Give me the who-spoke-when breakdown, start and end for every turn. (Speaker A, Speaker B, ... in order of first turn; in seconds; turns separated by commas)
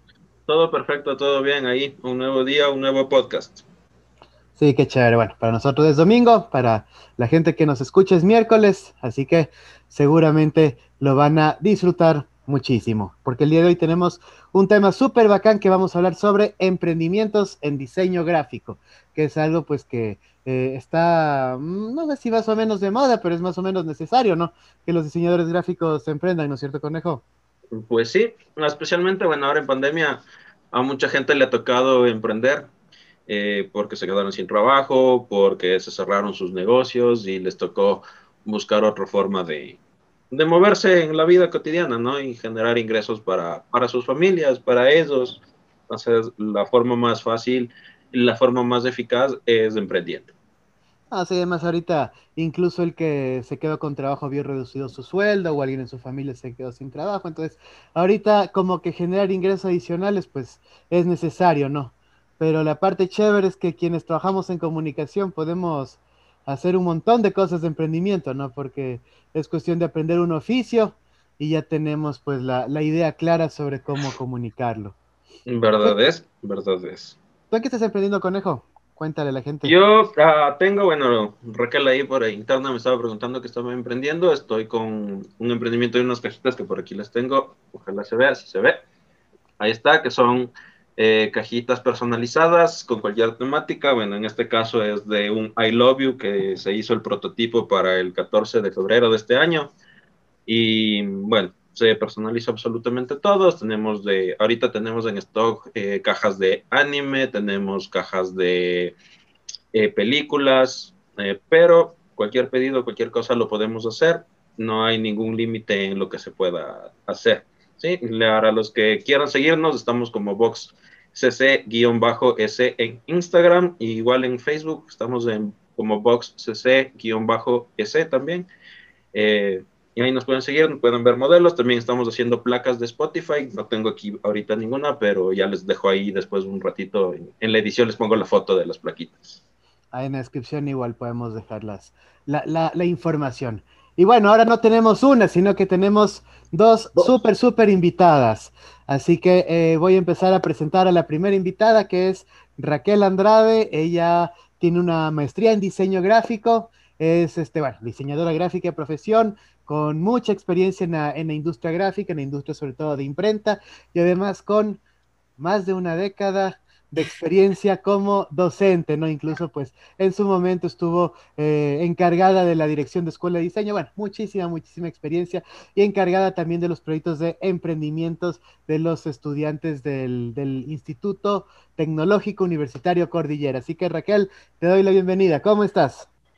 Speaker A: 0.5-3.6, Speaker B: 4.6-27.2, Speaker A: 27.7-32.7, Speaker A: 33.3-39.8, Speaker A: 40.3-50.3, Speaker B: 51.1-75.0, Speaker A: 75.5-77.2, Speaker B: 77.5-79.7, Speaker A: 79.6-88.8, Speaker A: 89.6-99.7, Speaker A: 100.5-108.9, Speaker A: 109.7-128.5, Speaker A: 129.1-139.4, Speaker B: 139.9-164.8, Speaker B: 165.4-186.1